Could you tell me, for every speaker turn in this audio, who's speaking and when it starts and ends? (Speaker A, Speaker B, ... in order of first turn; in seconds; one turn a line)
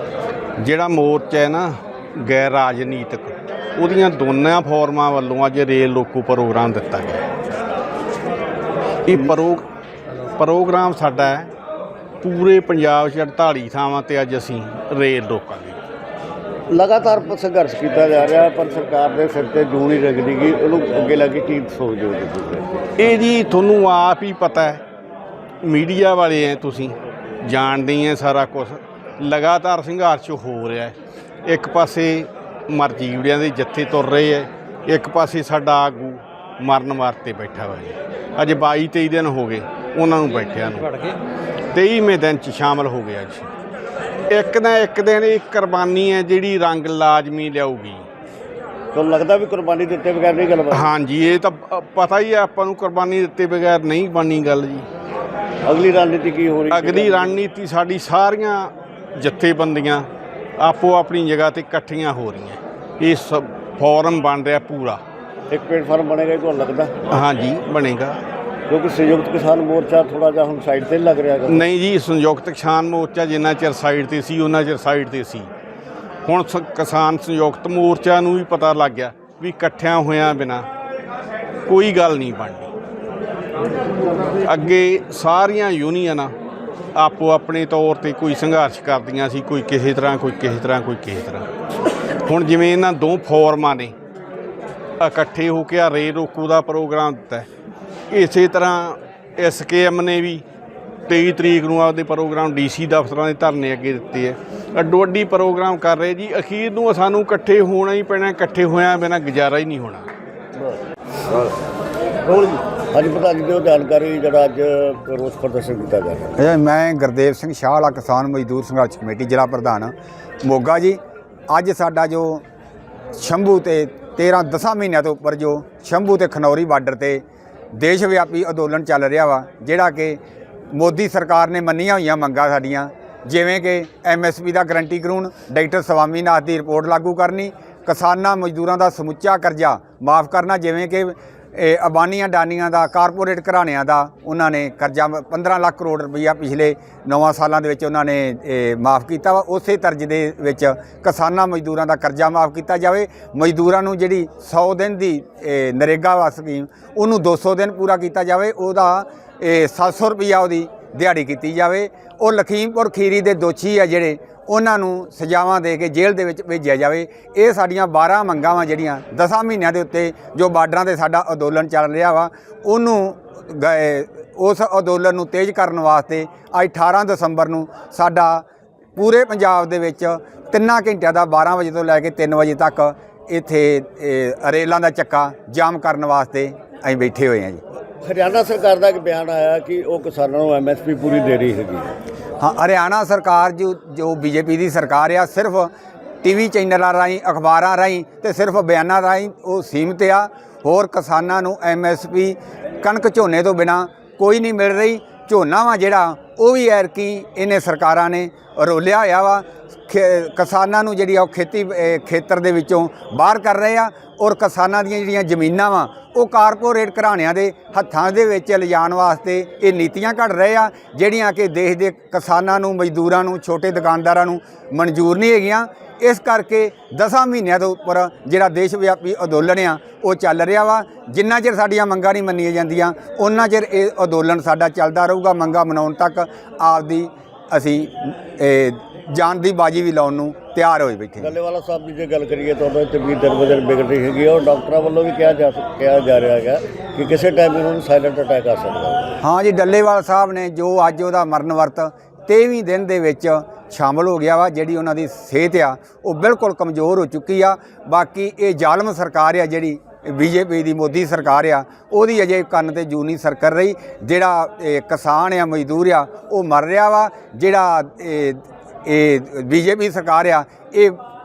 Speaker A: 0.6-7.3
Speaker A: 9.0-9.7
Speaker A: 10.3-11.5
Speaker A: 12.2-15.8
Speaker B: 16.7-22.9
Speaker A: 23.0-24.8
Speaker A: 25.6-41.1
Speaker A: 41.7-43.5
Speaker A: 44.3-48.0
Speaker B: 48.9-50.9
Speaker A: 50.7-54.9
Speaker B: 55.6-57.4
Speaker A: 56.7-60.1
Speaker A: 60.6-65.0
Speaker B: 65.5-66.9
Speaker A: 67.1-68.2
Speaker B: 68.7-71.7
Speaker A: 71.5-75.5
Speaker A: 76.2-80.7
Speaker A: 81.7-82.7
Speaker A: 84.4-86.3
Speaker A: 87.0-91.5
Speaker A: 92.2-93.9
Speaker A: 95.0-97.5
Speaker A: 98.1-100.4
Speaker A: 101.1-110.1
Speaker B: 112.2-116.4
Speaker C: 116.4-119.9
Speaker C: 120.4-121.0
Speaker C: 121.5-122.4
Speaker C: 123.1-127.2
Speaker C: 127.7-130.2
Speaker C: 130.7-178.4
Speaker C: 178.9-187.6
Speaker B: 188.0-191.9
Speaker C: 192.4-195.7
Speaker C: 196.2-241.3
Speaker B: 241.2-249.2
Speaker C: 249.2-271.0